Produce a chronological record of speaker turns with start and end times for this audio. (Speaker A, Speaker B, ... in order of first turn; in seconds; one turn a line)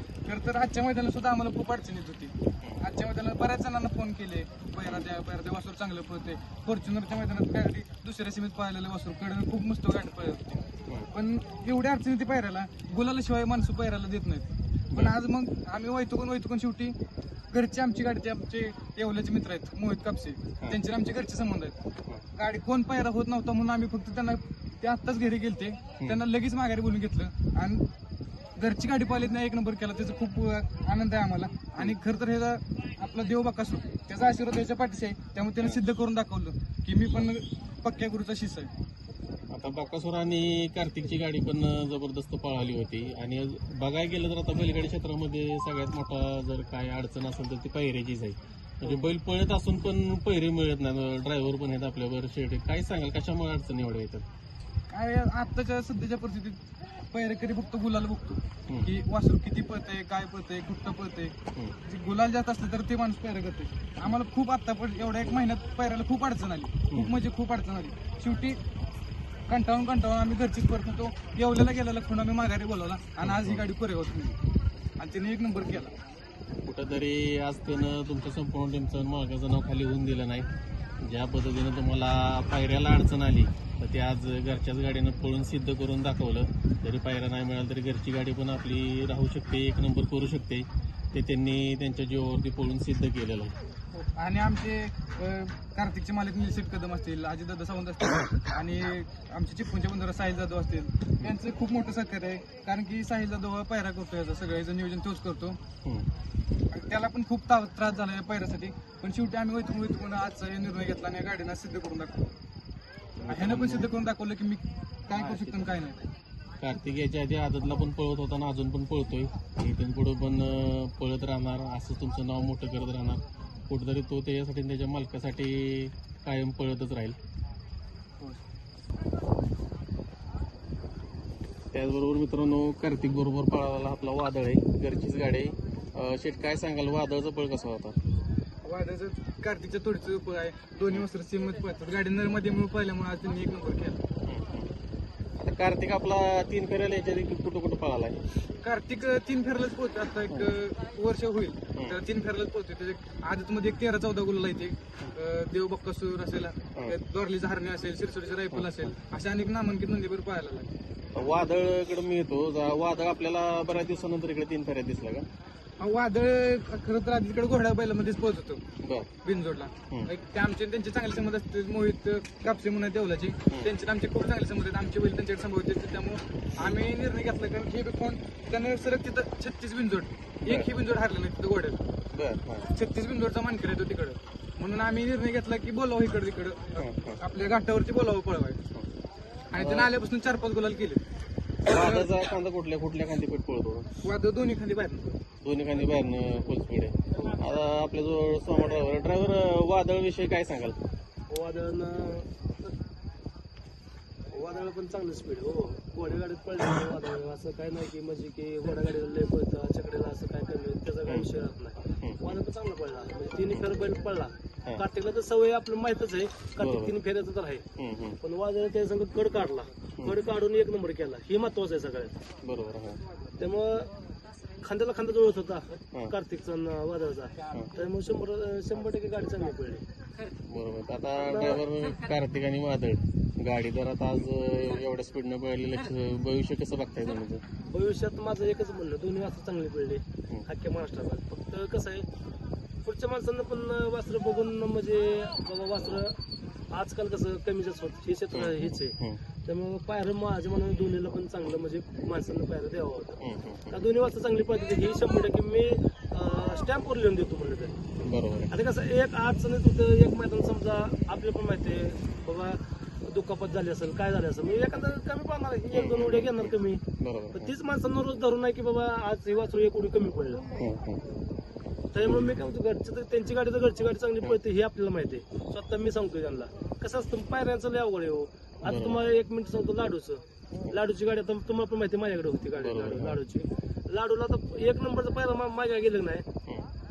Speaker A: 0.2-16.9
Speaker A: 17.5-21.8
Speaker A: 22.3-27.8
Speaker A: 28.6-38.7
Speaker B: 39.5-54.2
Speaker A: 48.8-49.1
Speaker A: 54.9-56.6
Speaker A: 57.1-68.6
Speaker A: 69.5-74.3
Speaker B: 73.2-73.7
Speaker A: 75.0-75.9
Speaker B: 76.6-80.5
Speaker B: 81.0-93.5
Speaker A: 93.9-105.6
Speaker A: 106.7-112.3
Speaker B: 113.2-113.9
Speaker A: 113.3-116.0
Speaker B: 115.1-115.7
Speaker B: 116.6-127.2
Speaker B: 131.7-137.9
Speaker A: 138.6-144.0
Speaker B: 144.2-144.7
Speaker B: 145.4-148.2
Speaker A: 148.6-160.7
Speaker B: 158.5-158.9
Speaker B: 161.1-165.3
Speaker A: 165.8-168.6
Speaker B: 168.8-169.1
Speaker A: 169.2-181.8
Speaker B: 180.4-180.7
Speaker B: 182.1-182.7
Speaker A: 182.7-188.6
Speaker B: 186.8-187.2
Speaker A: 189.5-191.0
Speaker B: 189.6-189.9
Speaker A: 191.7-192.1
Speaker B: 191.7-194.0
Speaker A: 194.0-195.2
Speaker B: 195.4-200.8
Speaker C: 201.3-202.7
Speaker C: 204.3-217.6
Speaker B: 212.0-212.4
Speaker B: 216.6-216.9
Speaker B: 217.8-218.2
Speaker C: 218.2-222.2
Speaker B: 222.4-223.0
Speaker C: 223.4-223.9
Speaker C: 224.6-229.8
Speaker B: 230.5-237.4
Speaker C: 231.2-231.6
Speaker C: 237.6-242.1
Speaker C: 242.8-246.2
Speaker C: 246.7-253.2
Speaker B: 248.3-249.2
Speaker B: 253.2-253.8
Speaker C: 253.7-257.8
Speaker B: 258.0-258.5
Speaker C: 258.5-270.5
Speaker B: 265.7-267.5
Speaker B: 270.6-271.1
Speaker C: 271.9-286.2
Speaker B: 272.0-272.4
Speaker B: 278.6-279.1
Speaker B: 280.5-280.8
Speaker B: 282.6-283.2